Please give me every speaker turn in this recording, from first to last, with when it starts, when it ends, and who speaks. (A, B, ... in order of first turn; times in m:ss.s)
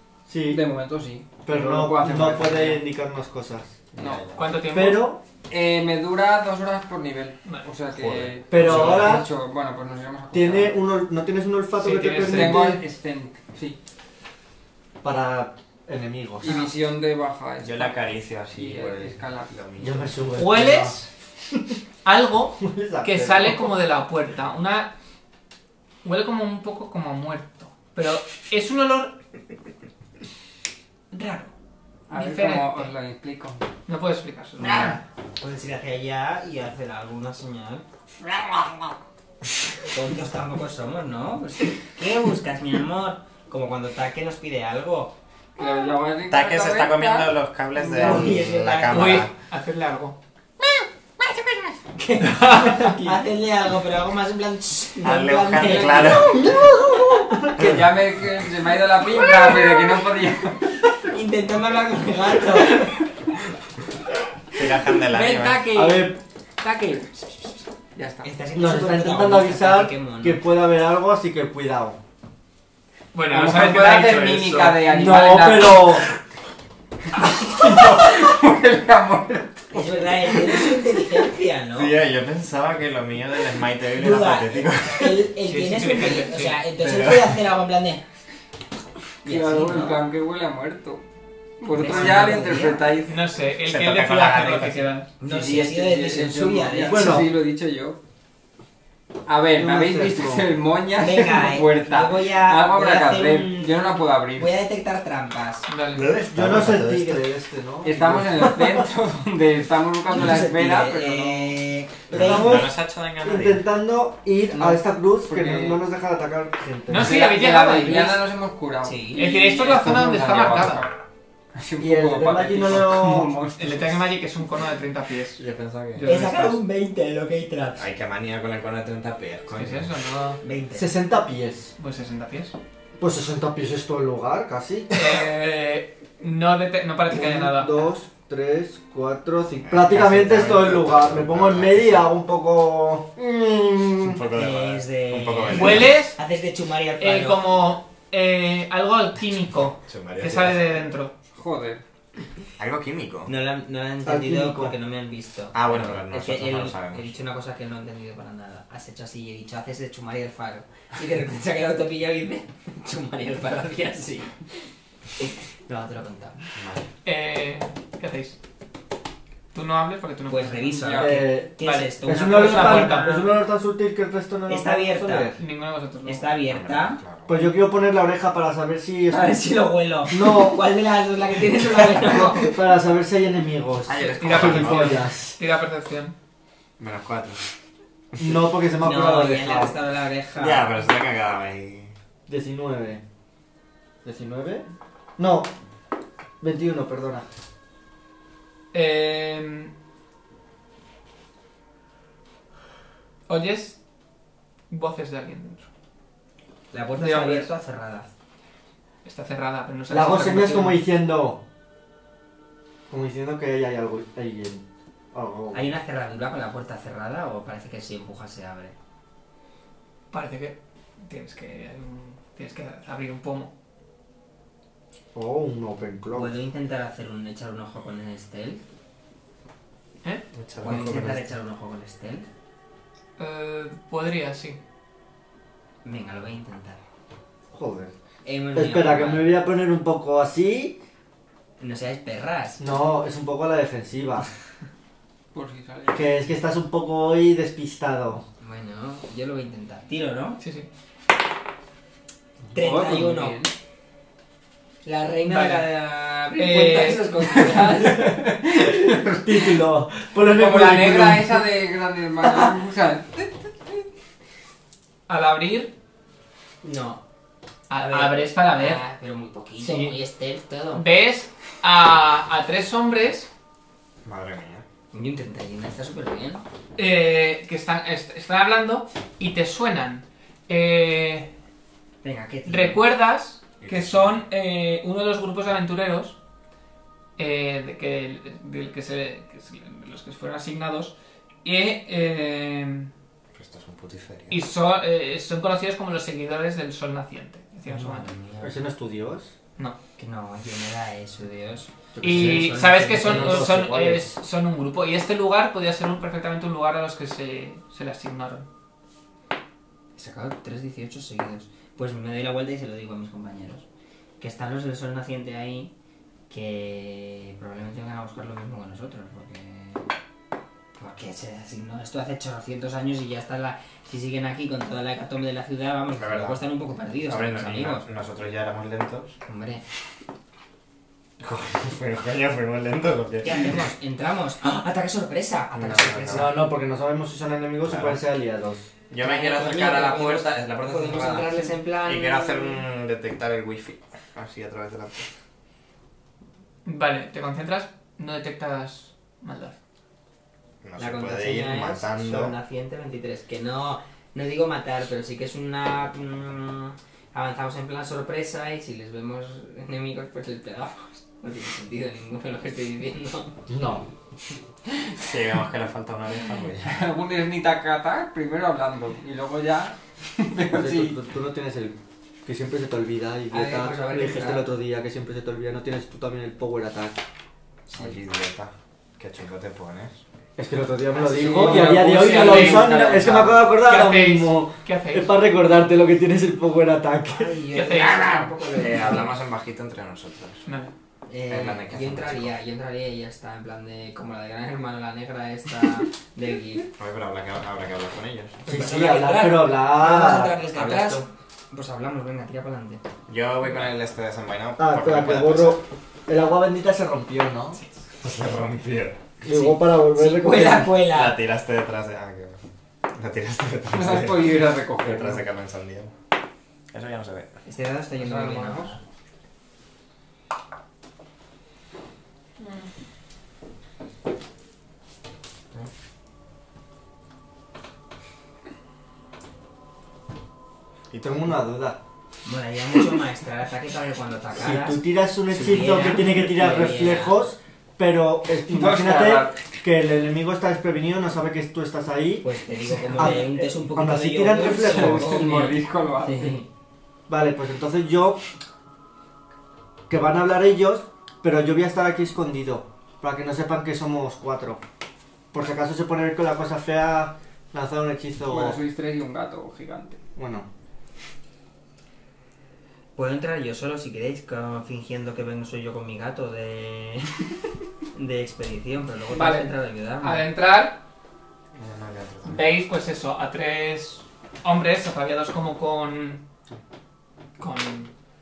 0:00.3-0:00.6 A
0:00.5-0:02.8 B
0:01.4-0:03.8 A
0:03.9-0:04.4 C
0:04.0-0:04.3 B
0:04.3-0:05.1 D
0:04.6-0:05.2 A
0:05.5-0:10.8 B
0:07.9-0:09.2 C
0:08.5-0:09.3 A
0:10.3-0:12.8 A
0:11.8-0:12.7 D
0:12.2-0:13.8 B
0:15.0-0:16.5 A
0:16.4-0:19.5 B
0:16.4-0:16.7 D
0:17.6-0:20.2 C
0:19.8-0:21.0 A
0:20.3-0:21.0 D
0:22.0-0:24.9 D
0:22.6-0:23.7 A
0:26.0-0:29.2 D
0:31.1-0:31.5 D
0:32.1-0:33.6 B
0:32.1-0:32.9 D
0:33.9-0:35.0 D
0:34.6-0:37.8 E
0:39.9-0:45.1 E
0:45.6-0:48.4 B
0:46.3-0:49.3 C
0:47.9-0:49.2 E
0:48.9-0:50.2 D
0:51.9-0:57.2 E
0:52.2-0:53.2 D
0:55.0-0:56.6 C
0:55.6-0:56.4 B
0:56.4-0:57.8 A
0:57.6-1:01.0 B
1:01.1-1:02.9 E
1:04.5-1:05.7 C
1:05.0-1:07.3 B
1:05.7-1:06.2 A
1:07.9-1:08.3 B
1:08.2-1:10.4 E
1:08.5-1:12.0 A
1:13.1-1:14.8 D
1:13.3-1:16.1 B
1:14.8-1:16.1 A
1:17.1-1:20.7 B
1:19.7-1:21.9 E
1:21.7-1:25.2 C
1:24.0-1:28.0 E
1:25.4-1:26.6 D
1:26.8-1:27.4 C
1:29.2-1:30.0 E
1:29.2-1:31.0 B
1:31.6-1:33.2 B
1:31.7-1:32.9 E
1:33.0-1:35.1 D
1:33.6-1:34.9 C
1:35.2-1:37.2 E
1:35.2-1:38.0 B
1:36.9-1:37.3 A
1:39.3-1:44.6 B
1:39.5-1:40.5 A
1:40.9-1:43.8 E
1:44.3-1:45.7 E
1:45.6-1:46.2 D
1:45.9-1:47.2 C
1:46.3-1:48.9 A
1:47.8-1:51.6 B
1:50.0-1:52.6 E
1:52.1-1:53.6 C
1:52.1-1:57.1 A
1:54.5-1:55.8 B
1:56.9-1:58.2 D
1:56.9-2:00.9 B
1:58.8-1:59.3 E
1:59.1-2:00.8 D
2:01.5-2:04.0 B
2:01.8-2:03.3 A
2:03.6-2:05.4 D
2:05.4-2:06.1 C
2:05.9-2:06.6 D
2:06.0-2:07.8 E
2:07.8-2:09.9 C
2:09.5-2:10.4 D
2:10.4-2:10.9 E
2:10.7-2:11.7 A
2:11.8-2:12.6 D
2:13.0-2:15.2 A
2:14.9-2:17.9 D
2:17.1-2:24.2 A
2:19.6-2:22.1 C
2:24.0-2:26.0 C
2:24.3-2:27.4 E
2:25.5-2:26.2 D
2:27.0-2:31.1 D
2:29.8-2:30.6 C
2:31.3-2:31.8 B
2:32.6-2:33.3 C
2:33.3-2:44.4 E
2:34.0-2:34.7 A
2:35.5-2:37.1 C
2:45.2-2:46.4 E
2:46.6-2:46.9 C
2:47.0-2:48.4 D
2:49.5-2:53.3 D
2:50.3-2:53.3 E
2:50.8-2:51.2 B
2:51.0-2:51.5 A
2:52.0-2:55.4 A
2:54.5-2:55.3 E
2:55.4-2:56.3 D
2:56.0-2:57.0 E
2:56.5-2:57.4 C
2:57.3-2:59.3 A
2:59.1-3:02.5 E
3:00.1-3:00.6 A
3:01.8-3:05.4 A
3:03.8-3:05.0 C
3:04.0-3:06.1 D
3:06.8-3:07.5 C
3:08.2-3:09.7 A
3:08.8-3:10.7 E
3:10.4-3:11.9 C
3:12.3-3:13.0 A
3:14.0-3:14.7 A
3:15.2-3:15.5 A
3:16.4-3:17.3 A
3:18.7-3:19.7 D
3:23.3-3:23.8 D
3:24.7-3:25.7 D
3:26.7-3:28.1 E
3:27.0-3:27.5 D
3:29.0-3:30.8 D
3:29.9-3:31.4 A
3:32.9-3:35.6 A
3:35.5-3:38.7 E
3:40.1-3:43.5 D
3:45.1-3:46.3 A
3:46.1-3:48.6 E
3:50.3-3:51.3 C
3:50.6-3:52.2 E
3:53.2-3:54.6 D
3:55.8-3:56.8 E
3:57.5-3:57.9 A
3:58.2-3:59.3 E
3:58.5-4:00.8 A
4:01.6-4:02.6 E
4:02.6-4:04.3 A
4:05.3-4:06.1 B
4:05.9-4:08.2 A
4:08.4-4:10.4 E
4:10.4-4:10.7 D
4:12.5-4:13.4 E
4:12.5-4:13.5 B
4:14.8-4:18.2 E
4:15.2-4:15.7 D
4:16.3-4:17.4 D
4:17.4-4:19.0 B
4:18.5-4:21.4 A
4:20.2-4:23.8 B
4:25.1-4:25.7 D
4:26.6-4:27.0 E
4:27.7-4:28.8 D
4:27.8-4:30.8 E
4:29.6-4:30.0 D
4:30.7-4:33.3 D
4:34.0-4:34.6 C
4:34.9-4:36.4 E
4:36.8-4:41.3 D
4:42.0-4:42.8 E
4:42.4-4:46.2 D
4:43.6-4:44.2 C
4:47.2-4:52.9 D
4:53.3-4:54.4 C
4:54.3-4:58.1 D
4:57.6-4:58.6 E
4:58.4-4:59.3 A
5:00.0-5:03.5 E
5:01.9-5:04.1 A
5:02.0-5:08.5 D
5:10.0-5:13.6 E
5:14.2-5:15.7 E
5:16.3-5:19.8 E
5:20.8-5:27.8 E
5:26.0-5:26.4 C
5:27.1-5:29.2 C
5:29.2-5:29.6 E
5:31.2-5:33.7 C
5:33.2-5:36.4 E
5:35.5-5:36.4 C
5:36.1-5:38.6 A
5:37.7-5:38.0 C
5:38.9-5:45.1 C
5:39.0-5:42.6 E
5:46.6-5:49.6 D
5:50.6-5:52.3 C
5:50.8-6:03.4 E
6:03.5-6:03.8 A
6:05.0-6:06.8 C
6:06.6-6:11.0 B
6:10.5-6:17.0 A
6:13.3-6:14.5 E
6:17.7-6:20.0 C
6:20.4-6:27.4 A
6:20.9-6:22.1 E
6:21.0-6:23.4 B
6:22.0-6:22.7 D
6:23.5-6:25.1 D
6:27.1-6:29.2 E
6:27.5-6:28.3 D
6:28.5-6:30.4 C
6:30.4-6:30.7 D
6:31.1-6:36.7 E
6:31.3-6:32.3 C
6:36.8-6:38.4 C
6:38.4-6:40.4 A
6:38.4-6:42.8 E
6:40.6-6:41.0 C
6:43.1-6:45.6 C
6:44.6-6:47.6 A
6:48.0-6:49.0 C
6:49.2-6:50.7 A
6:49.2-6:51.2 E
6:50.9-6:55.9 C
6:53.7-6:55.2 B
6:56.7-6:57.3 C
6:57.4-6:58.8 E
6:57.9-6:58.8 B
7:10.9-7:11.2 C
7:11.0-7:11.8 A
7:12.2-7:17.2 E
7:14.3-7:22.3 A
7:18.5-7:19.4 B
7:22.2-7:26.5 E
7:22.9-7:23.2 B
7:22.9-7:25.4 A
7:24.4-7:26.4 B
7:27.1-7:28.2 A
7:29.9-7:34.6 A
7:35.3-7:38.6 A
7:38.2-7:40.0 B
7:40.2-7:40.5 A
7:43.0-7:47.3 E
7:47.9-7:50.2 E
7:49.1-7:50.8 D
7:51.5-7:52.4 C
7:52.2-7:56.2 D
7:57.4-7:57.9 D